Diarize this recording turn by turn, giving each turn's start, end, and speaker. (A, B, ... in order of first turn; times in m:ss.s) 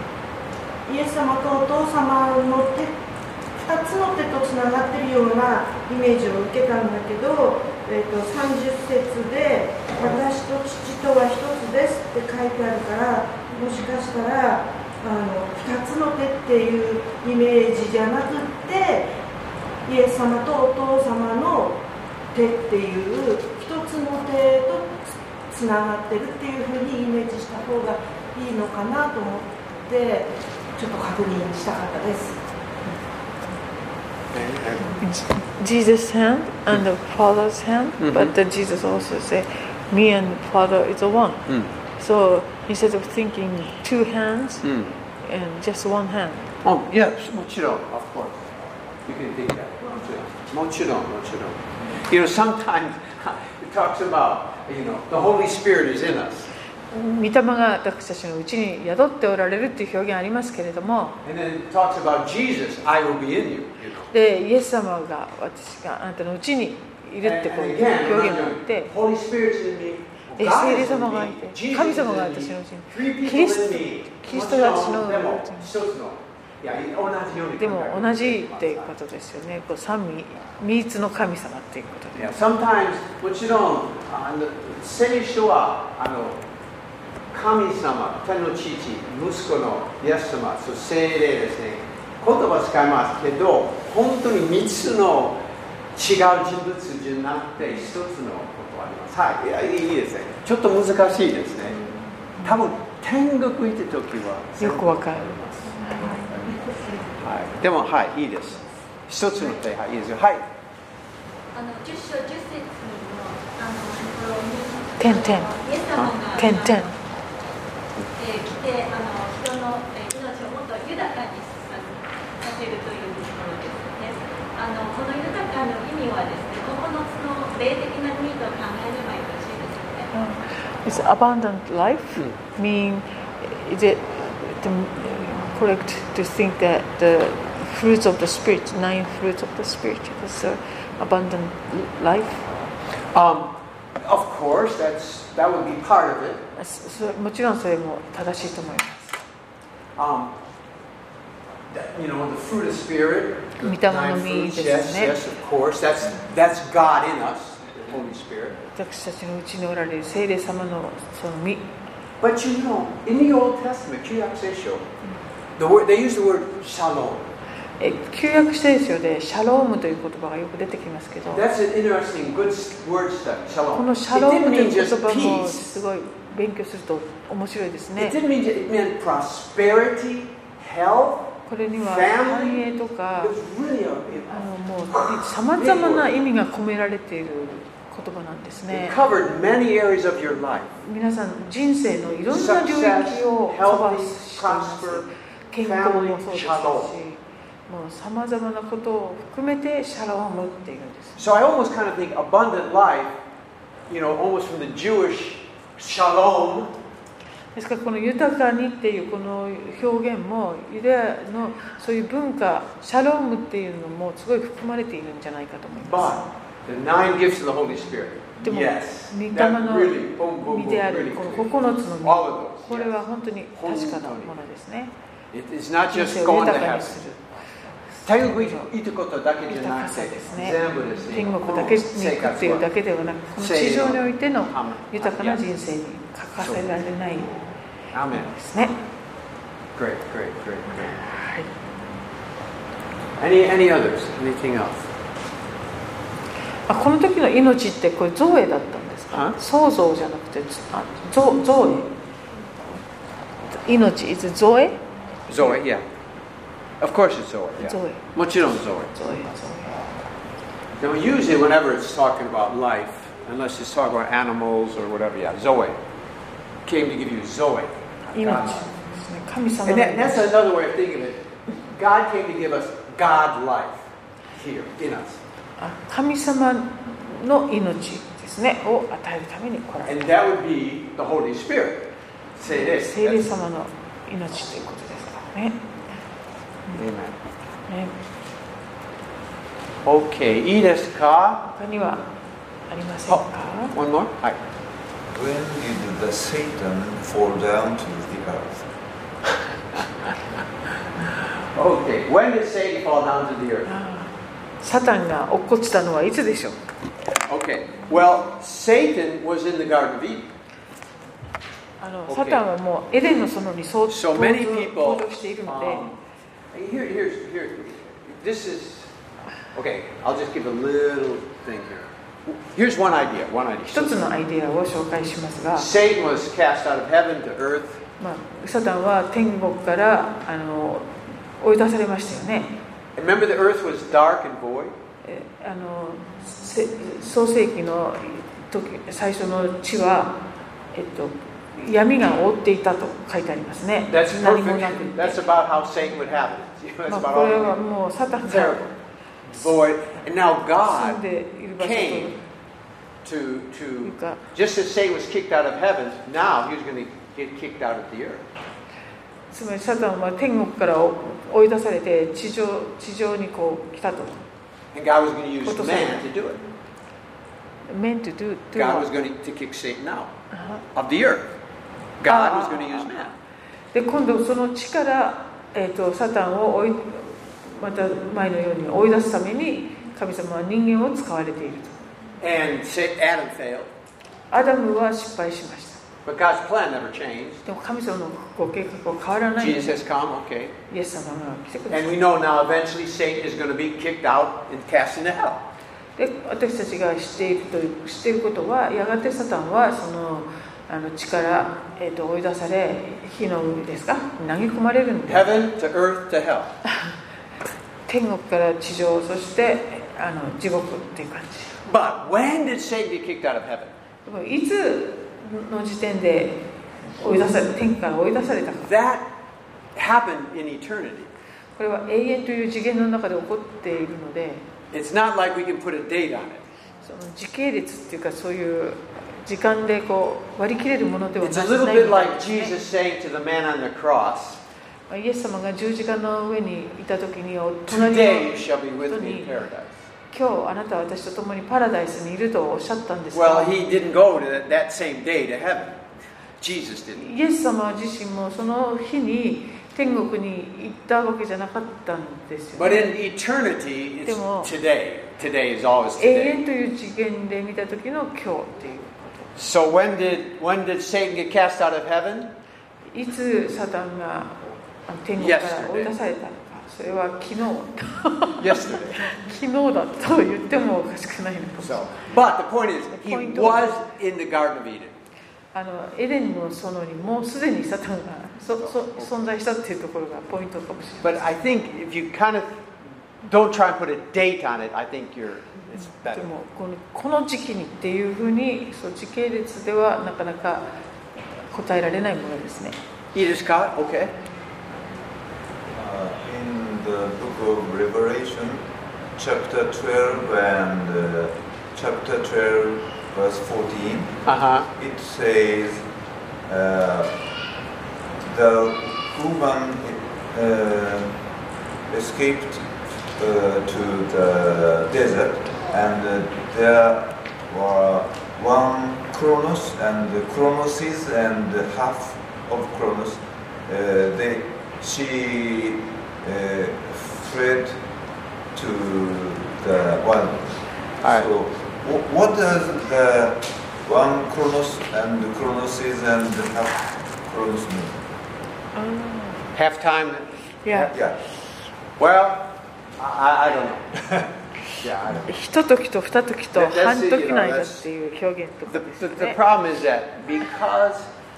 0:00.9-0:03.0 A
0:03.6-0:19.1 A
0:19.9-0:32.4 A
0:34.3-0:35.0 B
0:35.0-0:44.7 C
0:38.0-0:38.3 B
0:44.6-0:45.0 B
0:45.2-0:46.5 C
0:46.6-0:56.5 B
0:56.9-1:01.2 C
1:01.2-1:04.1 B
1:04.1-1:08.9 C
1:07.2-1:18.9 B
1:10.4-1:15.7 C
1:17.6-1:22.3 C
1:22.2-1:26.4 B
1:27.3-1:35.4 B
1:36.0-1:41.8 B
1:42.4-1:50.5 B
1:44.6-1:46.2 C
1:51.5-1:57.0 D
1:55.0-1:55.5 C
1:56.4-1:56.9 C
1:58.2-2:10.1 D
2:10.1-2:22.4 C
2:23.1-2:26.4 B
2:26.6-2:29.2 C
2:30.0-2:30.4 B
2:31.7-2:38.6 B
2:33.6-2:35.2 C
2:38.7-2:41.7 C
2:42.2-2:44.9 B
2:45.6-2:47.3 B
2:47.8-2:51.5 C
2:51.3-2:55.8 B
2:53.7-2:58.2 C
2:58.0-3:06.1 B
3:01.5-3:03.4 C
3:04.3-3:09.0 C
3:08.7-3:10.7 B
3:10.8-3:21.2 C
3:12.3-3:15.1 B
3:15.6-3:16.9 B
3:21.2-3:23.2 B
3:23.9-3:26.7 B
3:27.6-3:36.3 C
3:35.8-3:41.5 B
3:38.4-3:44.9 C
3:42.0-3:43.0 B
3:43.6-3:44.3 B
3:45.3-3:47.0 B
3:45.9-3:47.3 C
3:47.9-3:48.7 C
3:48.0-3:52.7 B
3:49.5-3:57.3 C
3:53.4-3:55.4 B
3:56.4-3:57.4 B
3:57.9-3:58.3 B
3:58.1-3:58.8 C
3:59.8-4:01.0 B
4:00.8-4:01.5 C
4:03.2-4:04.9 B
4:06.7-4:11.9 C
4:09.1-4:09.4 B
4:13.5-4:15.6 C
4:15.3-4:15.9 B
4:16.8-4:18.9 B
4:17.6-4:18.1 C
4:18.9-4:19.8 C
4:20.8-4:25.8 B
4:26.7-4:28.7 B
4:28.1-4:30.3 C
4:29.7-4:35.2 B
4:35.6-4:40.0 C
4:39.8-4:43.3 B
4:42.5-4:45.6 C
4:46.7-4:47.2 B
4:47.7-4:48.0 C
4:49.8-4:51.4 B
4:51.4-4:52.1 C
4:52.7-4:53.8 C
4:53.1-4:54.4 B
4:55.1-4:58.7 E
4:59.7-5:00.2 B
5:01.0-5:03.7 B
5:03.7-5:06.6 C
5:07.3-5:10.3 B
5:11.8-5:15.9 C
5:12.1-5:12.4 B
5:13.9-5:16.0 B
5:16.5-5:18.9 B
5:19.5-5:24.1 B
5:23.7-5:25.7 C
5:25.6-5:27.8 B
5:28.0-5:32.5 C
5:33.0-5:34.8 B
5:35.0-5:40.2 C
5:40.7-5:45.3 C
5:43.9-5:47.6 B
5:46.9-5:48.7 C
5:48.3-5:48.7 B
5:49.3-5:51.0 B
5:50.7-5:52.2 C
5:51.6-5:52.2 B
5:53.0-5:58.3 B
5:53.8-5:54.2 C
5:59.3-6:04.2 C
6:04.7-6:06.4 B
6:05.4-6:06.1 C
6:07.7-6:08.9 C
6:08.6-6:10.1 B
6:10.3-6:10.6 C
6:10.7-6:11.3 B
6:12.0-6:13.1 B
6:12.0-6:13.2 C
6:13.7-6:21.8 C
6:22.2-6:23.7 B
6:24.3-6:25.8 C
6:26.0-6:27.4 B
6:27.4-6:29.9 C
6:29.4-6:30.5 B
6:30.7-6:32.0 C
6:31.7-6:35.4 B
6:36.0-6:45.3 C
6:45.1-6:46.5 B
6:47.9-6:51.6 C
6:51.6-6:53.7 B
6:54.0-6:56.5 C
6:57.0-6:58.7 C
6:58.6-6:59.1 B
6:59.8-7:01.1 B
7:01.6-7:04.4 C
7:04.7-7:06.4 B
7:06.8-7:12.5 C
7:11.2-7:14.4 B
7:14.9-7:18.4 C
7:17.7-7:19.8 B
7:18.9-7:19.3 C
7:20.1-7:23.6 C
7:23.1-7:25.8 B
7:26.4-7:27.1 B
7:27.0-7:32.9 C
7:32.6-7:36.4 B
7:34.0-7:34.5 C
7:36.0-7:39.1 C
7:39.4-7:42.3 B
7:42.9-7:51.9 C
7:45.2-7:45.9 B
7:48.4-7:49.2 B
7:51.6-7:55.0 B
7:52.9-7:53.8 C
7:55.5-8:01.2 C
7:58.6-7:59.1 B
8:01.0-8:02.6 B
8:03.2-8:06.4 B
8:06.0-8:10.6 C
8:11.4-8:12.8 C
8:13.1-8:14.1 B
8:15.7-8:18.6 E
8:19.2-8:24.2 E
8:24.2-8:24.7 B
8:24.8-8:25.8 E
8:26.5-8:27.2 E
8:28.2-8:31.2 E
8:31.9-8:47.8 E
8:48.5-8:58.0 E
8:51.0-8:51.3 B
8:58.8-8:59.5 C
8:59.5-9:01.0 B
9:00.6-9:00.9 C
9:02.0-9:04.2 B
9:04.8-9:05.3 B
9:05.2-9:09.4 C
9:06.6-9:07.9 B
9:08.7-9:11.1 B